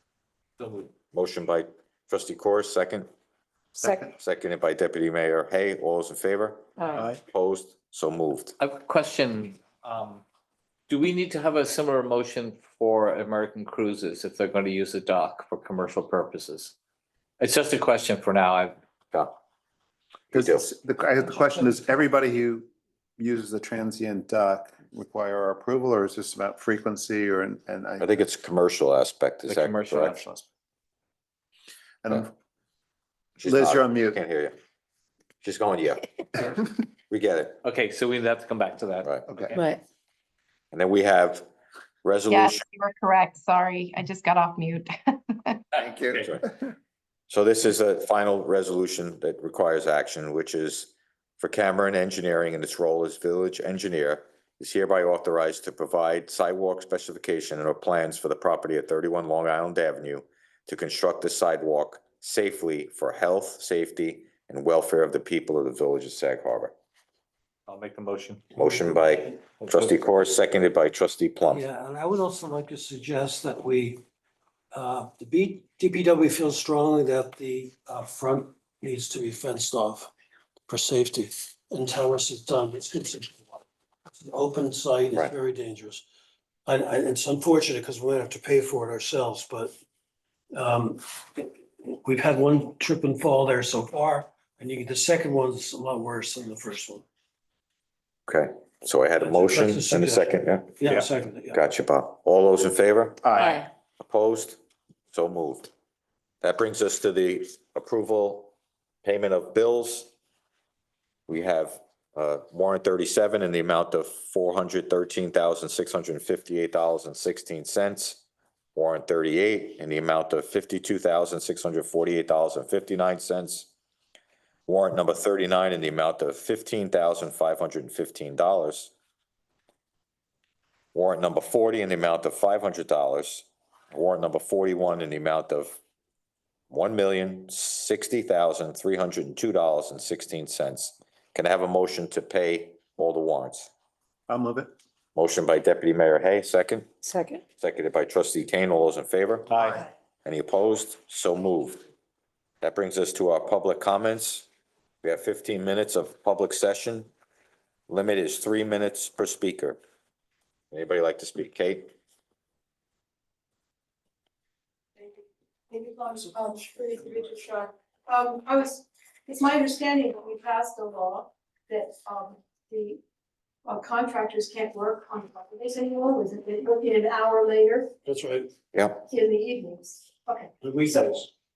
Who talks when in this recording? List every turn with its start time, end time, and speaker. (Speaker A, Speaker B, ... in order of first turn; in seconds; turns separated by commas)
Speaker A: 0.6-0.9, Speaker B: 1.1-3.1, Speaker C: 3.8-4.1, Speaker B: 4.1-8.5, Speaker C: 6.9-7.2, Speaker A: 8.6-10.2, Speaker A: 10.9-16.8, Speaker A: 17.4-18.8, Speaker C: 20.3-28.1, Speaker B: 20.3-20.6, Speaker B: 28.0-30.2, Speaker A: 29.5-30.2, Speaker C: 29.9-30.4, Speaker C: 32.0-32.3, Speaker B: 33.4-34.5, Speaker C: 33.4-34.2, Speaker B: 35.4-36.5, Speaker B: 37.1-37.6, Speaker A: 37.6-39.1, Speaker C: 39.3-39.6, Speaker B: 40.7-41.5, Speaker B: 42.0-42.6, Speaker D: 42.3-45.6, Speaker C: 45.7-46.7, Speaker B: 47.3-66.7, Speaker A: 67.7-68.6, Speaker B: 68.6-71.6, Speaker A: 69.6-70.1, Speaker E: 71.5-74.0, Speaker E: 74.7-80.1, Speaker E: 80.7-86.0, Speaker E: 86.7-89.7, Speaker E: 90.5-97.0, Speaker B: 98.3-100.8, Speaker E: 99.2-101.7, Speaker B: 101.5-104.6, Speaker C: 103.2-103.6, Speaker B: 105.1-105.7, Speaker B: 106.4-108.5, Speaker B: 109.0-110.1, Speaker B: 111.3-118.2, Speaker B: 118.8-123.7, Speaker B: 124.7-128.9, Speaker B: 130.9-135.8, Speaker B: 136.7-143.7, Speaker C: 144.3-144.7, Speaker B: 145.2-146.9, Speaker B: 147.6-149.5, Speaker A: 149.5-149.8, Speaker B: 150.2-151.8, Speaker B: 152.6-154.5, Speaker B: 155.0-157.1, Speaker B: 157.9-159.8, Speaker B: 160.7-161.9, Speaker F: 165.0-173.0, Speaker F: 173.7-177.9, Speaker E: 178.0-178.5, Speaker B: 178.7-179.0, Speaker F: 179.0-181.1, Speaker E: 180.6-181.3